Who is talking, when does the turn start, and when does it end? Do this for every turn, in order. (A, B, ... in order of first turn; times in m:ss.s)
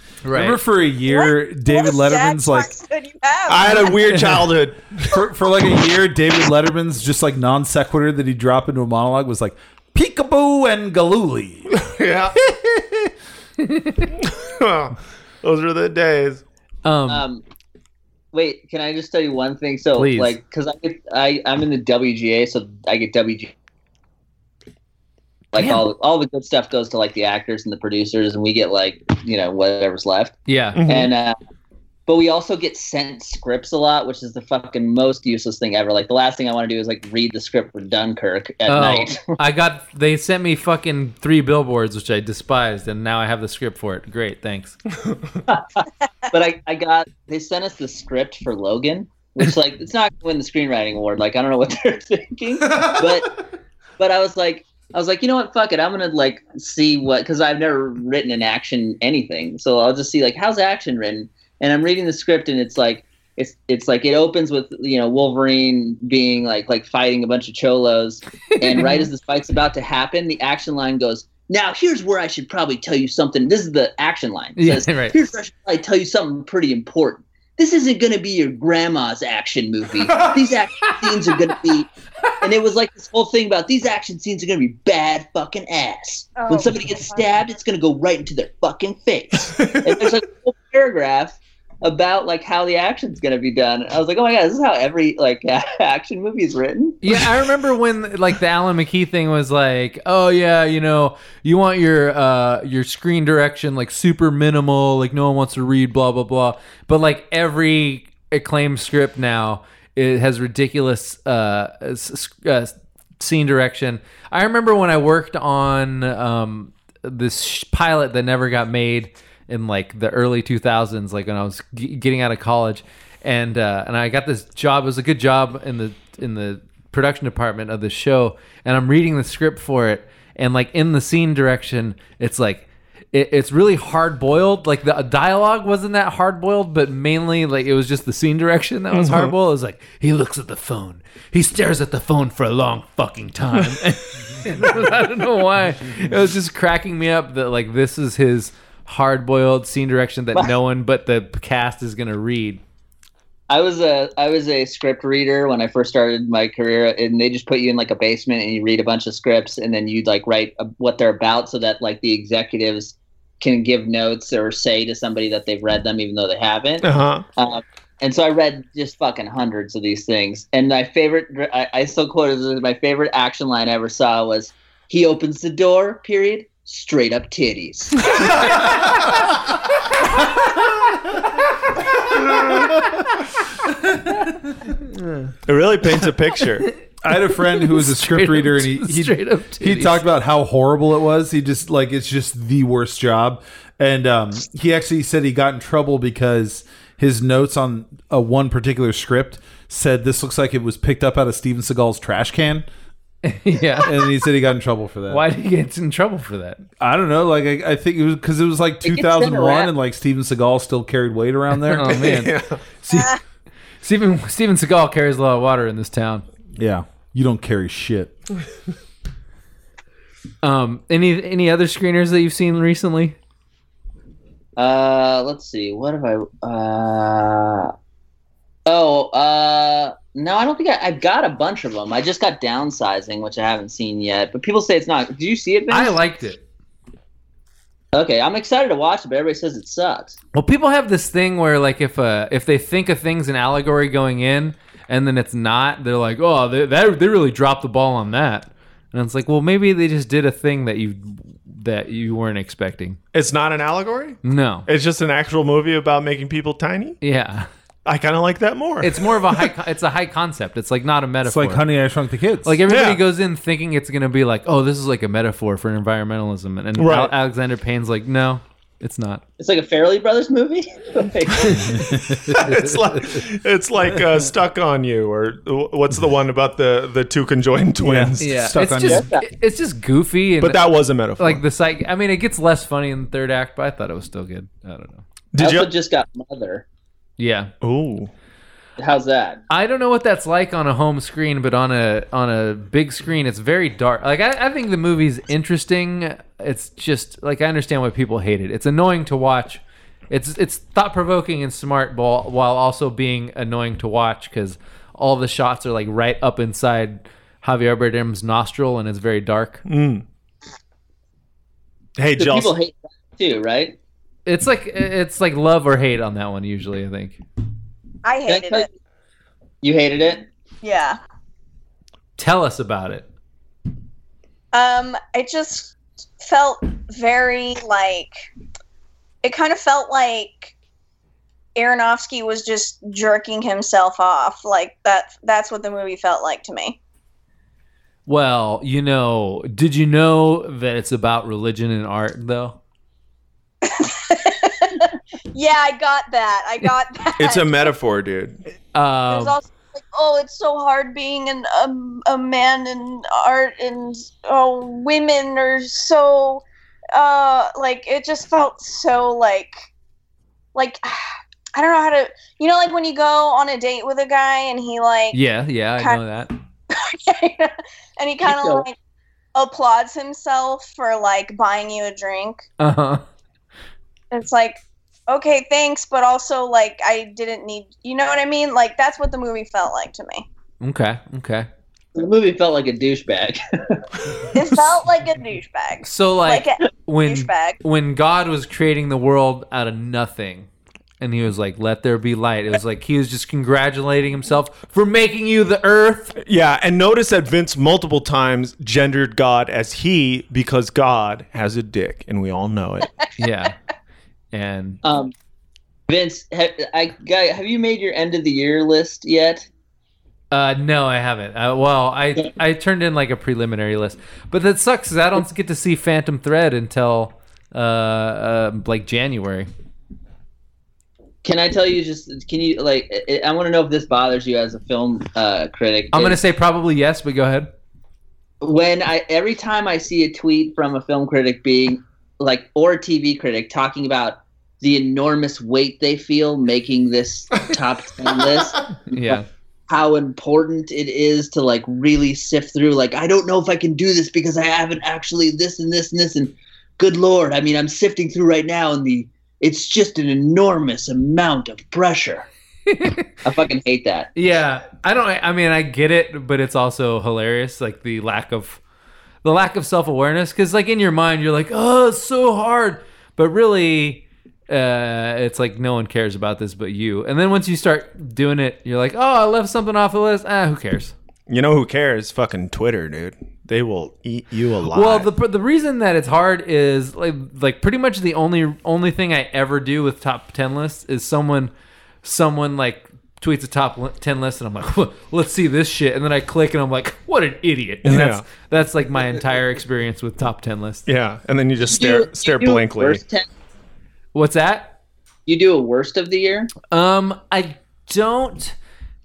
0:00.2-0:00.6 A
0:00.3-0:02.7 B
0:01.1-0:04.0 C
0:03.5-0:05.2 D
0:04.2-0:04.4 A
0:05.1-0:11.7 B
0:11.7-0:12.4 D
0:12.4-0:13.1 B
0:13.6-0:14.1 A
0:14.2-0:16.4 D
0:16.8-0:17.3 A
0:17.1-0:17.4 E
0:18.3-0:23.5 E
0:20.0-0:20.4 A
0:25.5-0:31.4 E
0:25.6-0:25.8 A
0:30.5-0:30.8 A
0:30.8-0:31.1 D
0:32.1-0:39.4 E
0:38.7-0:44.8 A
0:45.5-0:53.3 E
0:54.0-1:21.9 E
1:08.6-1:09.1 A
1:14.6-1:15.3 A
1:22.4-1:37.0 E
1:26.4-1:27.2 C
1:29.6-1:29.9 D
1:37.0-2:32.6 A
2:18.9-2:19.3 D
2:33.5-2:58.3 E
2:46.8-2:47.3 D
3:04.9-3:05.3 A
3:05.5-3:06.7 D
3:07.0-3:22.7 B
3:07.1-3:10.0 A
3:23.2-3:24.1 A
3:23.8-3:25.2 B
3:25.1-3:26.6 A
3:26.8-3:32.0 B
3:28.8-3:29.7 E
3:31.6-3:32.3 A
3:31.9-3:32.6 D
3:32.8-3:33.2 A
3:32.9-3:33.2 C
3:33.8-3:36.2 A
3:36.6-3:38.2 B
3:40.4-3:43.2 A
3:44.6-3:47.7 E
3:48.7-3:56.0 E
3:55.7-3:56.4 A
3:57.9-4:00.2 E
4:00.3-4:13.0 A
4:13.1-4:17.0 D
4:14.2-4:14.7 A
4:17.0-4:17.5 A
4:17.9-4:19.5 D
4:18.8-4:21.7 A
4:21.2-4:22.6 B
4:22.4-4:29.2 A
4:22.7-4:23.0 D
4:26.8-4:27.1 D
4:29.4-4:31.8 E
4:31.5-4:33.2 A
4:32.3-4:38.5 D
4:37.8-4:39.1 B
4:38.2-4:45.0 A
4:38.8-4:39.3 E
4:40.4-4:41.4 D
4:45.3-4:45.7 D
4:45.4-4:46.6 E
4:47.2-4:47.5 A
4:47.6-4:48.1 D
4:48.8-4:49.4 E
4:49.5-5:09.6 A
5:09.7-5:10.0 D
5:12.0-5:12.5 D
5:12.2-5:13.8 E
5:14.3-5:17.2 A
5:18.0-5:18.7 C
5:18.3-5:18.7 E
5:19.6-5:20.3 E
5:20.6-5:21.0 C
5:22.2-5:23.1 A
5:24.5-5:28.2 C
5:29.2-5:30.5 C
5:31.6-5:36.8 C
5:38.1-5:42.6 A
5:43.6-5:47.7 C
5:47.2-5:48.4 D
5:48.7-5:49.4 A
5:49.1-5:59.6 C
6:00.6-6:05.2 C
6:05.1-6:06.3 A
6:06.7-6:08.8 C
6:08.2-6:08.7 E
6:09.4-6:12.4 C
6:12.6-6:13.0 A
6:14.1-6:20.3 C
6:20.6-6:21.5 A
6:22.0-6:23.8 E
6:24.3-6:27.6 C
6:25.8-6:30.5 A
6:31.0-6:36.2 A
6:36.2-6:42.9 D
6:43.2-6:43.6 A
6:44.3-6:44.8 A
6:44.8-6:45.1 E
6:45.9-6:49.5 E
6:50.3-6:59.5 A
7:01.2-7:06.2 E
7:05.9-7:07.5 A
7:08.4-7:32.3 E
7:18.9-7:19.3 A
7:32.7-7:33.1 A
7:33.2-7:34.1 E
7:34.2-7:38.6 A
7:39.2-7:50.9 A
7:51.3-7:55.1 D
7:54.7-8:01.5 A
8:02.0-8:10.9 A
8:07.8-8:08.2 D
8:10.9-8:13.0 D
8:11.6-8:13.3 E
8:14.1-8:14.8 A
8:15.3-8:16.5 E
8:16.7-8:18.6 A